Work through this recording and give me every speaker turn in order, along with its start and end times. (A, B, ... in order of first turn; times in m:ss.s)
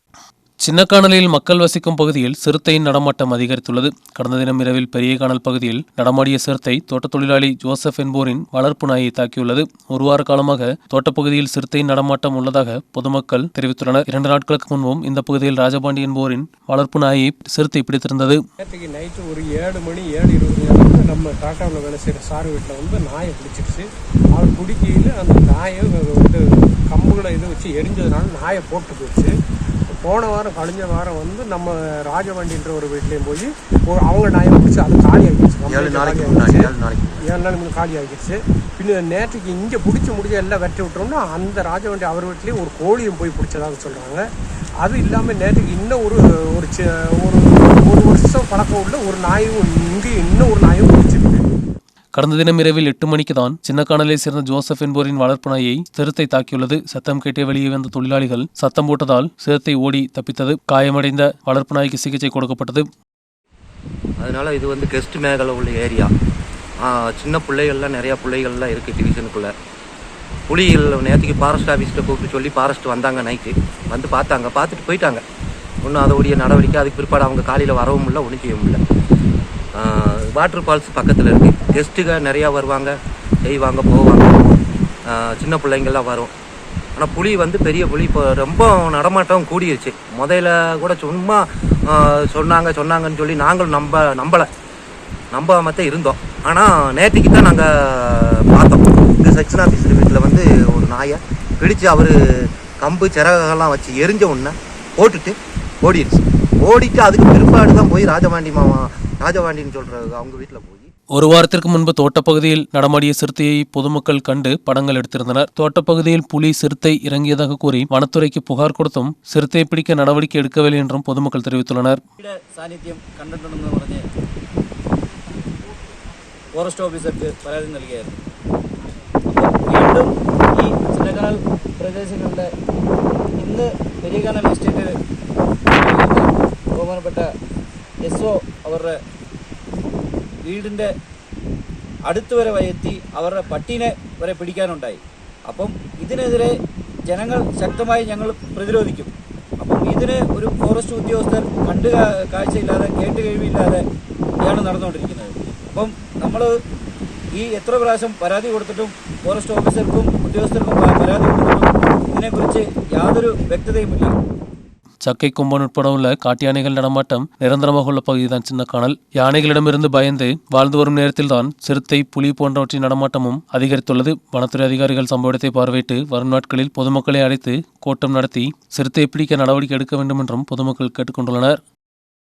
0:00.6-0:18.4 A
0:18.6-0:29.3 B
0:29.9-0:44.2 B
0:35.7-0:37.3 C
0:44.8-0:51.5 B
0:52.2-1:02.9 A
1:04.2-1:06.1 C
1:06.8-1:09.5 C
1:10.5-1:15.2 C
1:15.8-1:18.8 C
1:19.8-1:26.3 C
1:27.0-1:34.5 C
1:35.3-1:42.1 C
1:42.8-1:50.9 C
1:51.1-2:02.0 A
2:02.2-2:04.0 D
2:06.5-2:08.2 D
2:09.3-2:12.5 D
2:13.4-2:14.9 D
2:15.7-2:17.3 D
2:18.0-2:19.0 D
2:20.4-2:20.9 D
2:22.1-2:26.5 D
2:27.1-2:33.8 D
2:34.4-2:36.5 D
2:37.4-2:44.2 D
2:45.0-3:01.6 A